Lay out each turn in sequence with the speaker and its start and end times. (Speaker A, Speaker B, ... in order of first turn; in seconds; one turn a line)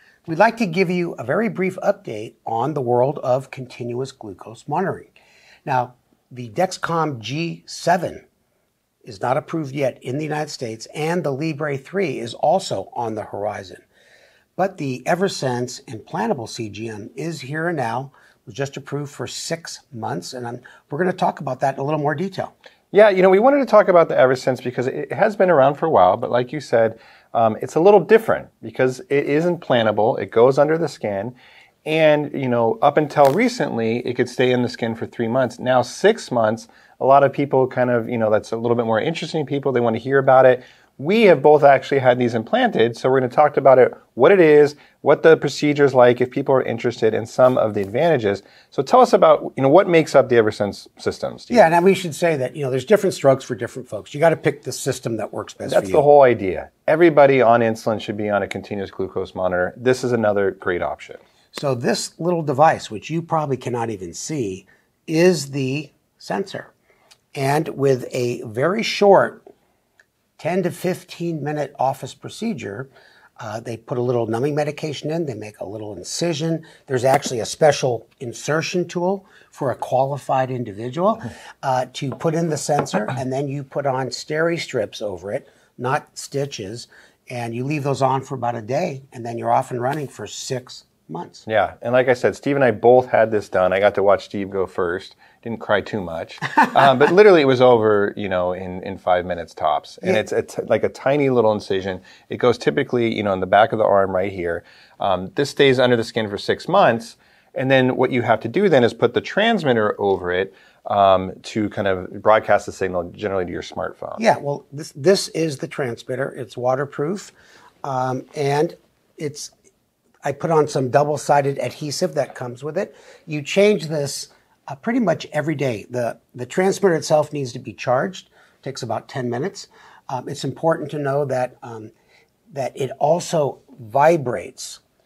Speaker A: 0.3-5.1
Speaker A: 5.7-8.2
Speaker A: 9.0-13.8
Speaker A: 14.6-22.5
Speaker B: 22.9-31.4
Speaker B: 31.9-51.7
Speaker A: 51.5-56.0
Speaker B: 55.7-61.2
Speaker A: 61.5-66.7
Speaker A: 67.3-69.5
Speaker A: 70.4-91.5
Speaker B: 91.5-114.2
Speaker A: 114.2-119.5
Speaker A: 120.2-131.9
Speaker A: 132.5-134.8